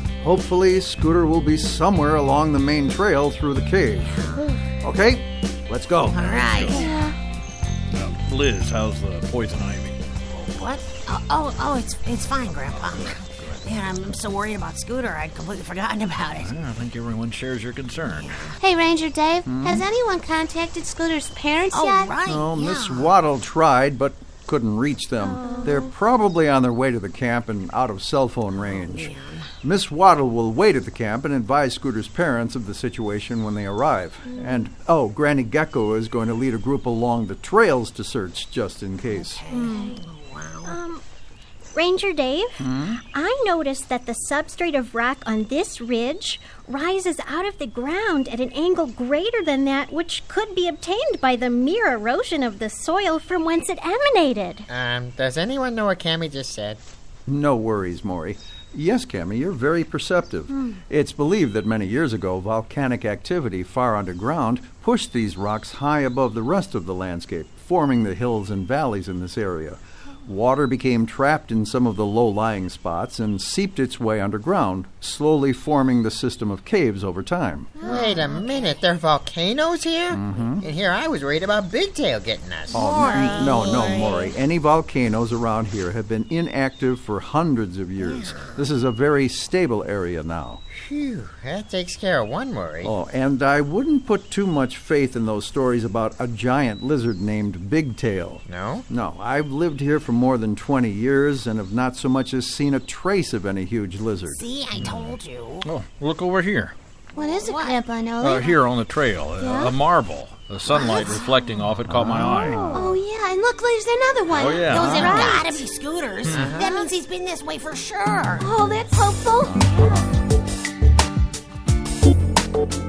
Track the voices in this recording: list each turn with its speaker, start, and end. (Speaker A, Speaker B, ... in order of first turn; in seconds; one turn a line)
Speaker A: 0.2-6.5
Speaker B: 4.0-4.6
Speaker B: 6.1-7.0
Speaker C: 6.5-6.9
Speaker D: 6.7-7.2
Speaker C: 7.9-10.0
Speaker B: 10.3-16.6
Speaker C: 12.7-13.7
Speaker C: 16.4-18.4
Speaker B: 18.0-18.6
Speaker D: 18.6-22.2
Speaker A: 19.5-19.9
Speaker B: 21.7-23.1
Speaker A: 22.2-39.4
Speaker D: 25.2-25.9
Speaker B: 28.6-29.5
Speaker D: 34.3-34.6
Speaker B: 39.1-40.8
Speaker D: 39.5-40.0
Speaker E: 39.5-40.0
Speaker E: 40.7-41.0
Speaker E: 41.7-54.7
Speaker A: 42.6-43.0
Speaker F: 54.7-56.8
Speaker A: 57.3-77.8
Speaker D: 77.8-78.1
Speaker B: 77.8-78.7
Speaker F: 77.8-84.2
Speaker A: 80.1-80.7
Speaker B: 82.7-84.0
Speaker A: 82.7-90.6
Speaker D: 83.1-83.4
Speaker B: 88.0-88.6
Speaker F: 90.7-92.9
Speaker A: 92.8-104.9
Speaker F: 98.5-98.8
Speaker B: 104.3-105.7
Speaker C: 104.8-105.1
Speaker C: 105.7-106.8
Speaker D: 107.2-108.6
Speaker B: 107.2-107.8
Speaker C: 108.2-112.7
Speaker D: 109.4-109.7
Speaker D: 110.7-111.4
Speaker A: 111.9-112.8
Speaker D: 112.7-115.6
Speaker C: 114.3-115.4
Speaker B: 114.7-118.5
Speaker C: 116.2-116.5
Speaker F: 116.3-116.8
Speaker D: 116.6-116.9
Speaker D: 118.4-120.0